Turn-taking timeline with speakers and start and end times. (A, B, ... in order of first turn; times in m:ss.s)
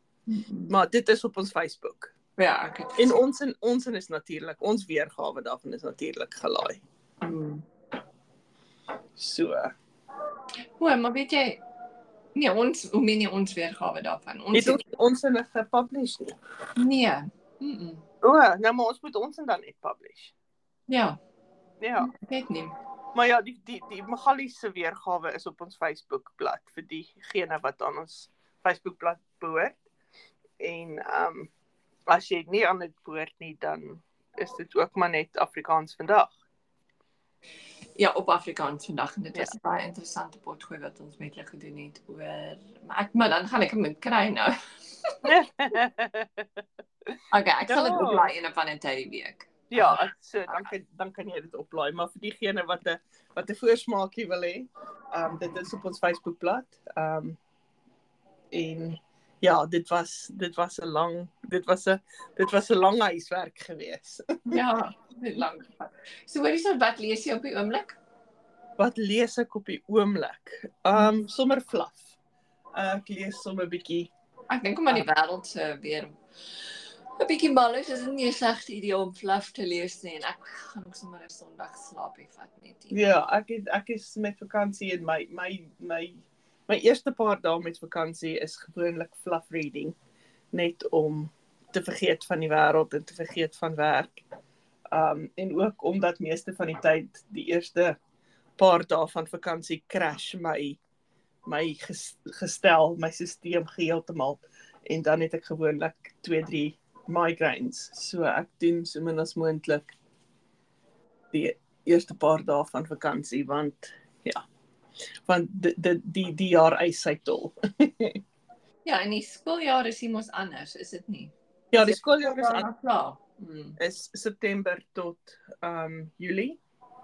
0:00.3-0:00.8 A
0:00.7-0:02.1 B
0:02.4-0:03.2 A
0:03.0-0:06.8 B
0:07.2-0:07.6 A
0:09.2-0:09.7 B
0:10.8-0:11.6 A
0:12.4-0:14.8 A
0:14.5-0:16.4 B
0:16.8-0:18.0 A
0:18.2-0:20.3 B
0:20.9-0:21.2 A
0:21.8-0:22.1 B
0:22.0-0:22.7 A
0:23.1-0:29.8 B
0:30.6-0:31.5 B
0:32.1-0:36.3 B
0:38.0-0:44.5 A
0:45.2-0:46.5 B
0:47.3-0:50.7 A
0:47.7-0:48.3 B
0:49.7-0:57.4 B
0:55.2-0:55.6 A
0:58.5-1:04.6 B
1:04.5-1:08.0 A
1:08.8-1:12.1 B
1:10.9-1:11.2 A
1:12.8-1:14.1 B
1:14.5-1:23.0 A
1:22.9-1:30.0 B
1:30.5-1:34.2 B
1:34.9-1:38.0 B
1:38.6-1:40.8 B
1:41.4-1:49.9 B
1:51.3-1:54.4 B
1:55.2-1:58.2 B
1:58.8-2:03.8 A
2:01.7-2:02.7 B
2:03.8-2:06.6 B